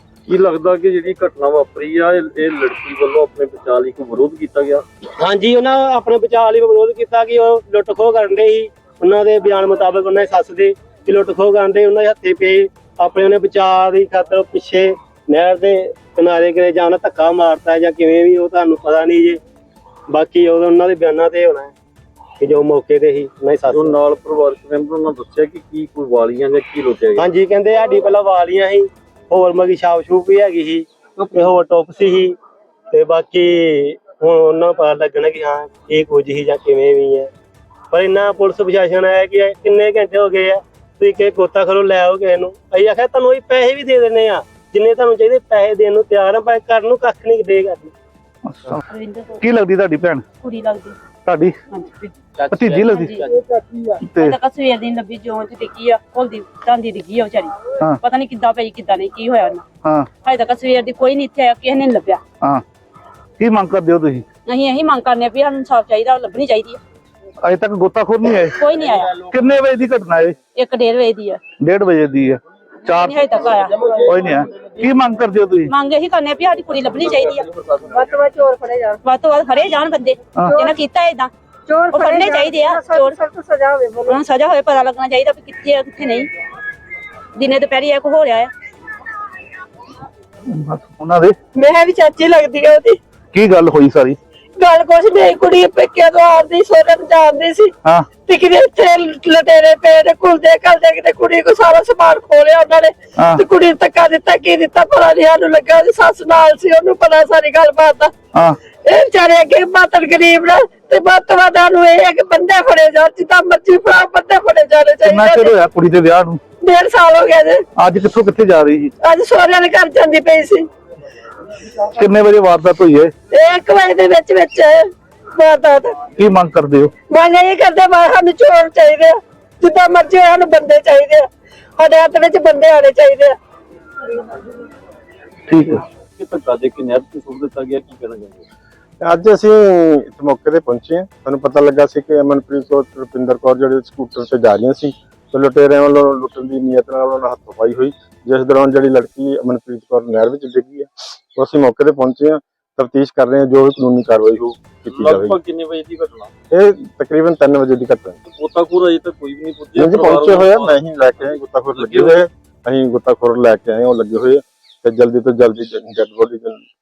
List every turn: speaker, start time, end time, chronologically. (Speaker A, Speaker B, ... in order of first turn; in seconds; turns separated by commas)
Speaker A: 0.3-4.8, Speaker B: 5.2-19.4, Speaker B: 20.1-21.7, Speaker B: 22.4-23.7, Speaker A: 23.7-27.3, Speaker B: 27.2-32.4, Speaker B: 32.9-37.3, Speaker B: 37.9-47.9, Speaker C: 48.5-48.8, Speaker D: 48.9-49.4, Speaker C: 49.4-50.2, Speaker D: 50.4-51.0, Speaker C: 51.2-51.5, Speaker D: 51.7-52.1, Speaker A: 52.4-53.9, Speaker C: 52.5-53.2, Speaker D: 52.9-53.2, Speaker C: 54.0-54.4, Speaker D: 54.2-59.6, Speaker D: 60.2-62.2, Speaker C: 63.4-64.2, Speaker D: 64.5-66.8, Speaker C: 67.4-68.6, Speaker D: 68.5-69.2, Speaker C: 69.2-70.3, Speaker D: 70.5-71.4, Speaker C: 71.6-73.2, Speaker D: 72.8-74.0, Speaker C: 74.1-75.7, Speaker D: 75.7-77.5, Speaker E: 77.9-79.0, Speaker D: 79.0-81.3, Speaker E: 80.5-80.7, Speaker E: 81.7-84.2, Speaker D: 81.9-83.2, Speaker D: 84.1-86.3, Speaker D: 87.3-88.5, Speaker C: 90.5-91.3, Speaker E: 91.6-93.0, Speaker C: 93.3-94.2, Speaker E: 94.6-97.7, Speaker E: 98.2-108.1, Speaker C: 103.2-103.4, Speaker E: 108.8-115.5, Speaker C: 115.0-116.4, Speaker E: 116.6-117.6, Speaker C: 117.8-118.9, Speaker E: 119.0-120.7, Speaker C: 121.9-123.1, Speaker E: 123.3-126.1, Speaker C: 126.2-126.9, Speaker E: 127.1-131.2, Speaker E: 131.8-133.3, Speaker C: 135.5-135.8, Speaker A: 136.2-138.4, Speaker F: 139.0-155.4, Speaker A: 154.9-156.3, Speaker F: 156.5-158.2, Speaker A: 158.3-162.2, Speaker F: 159.8-166.6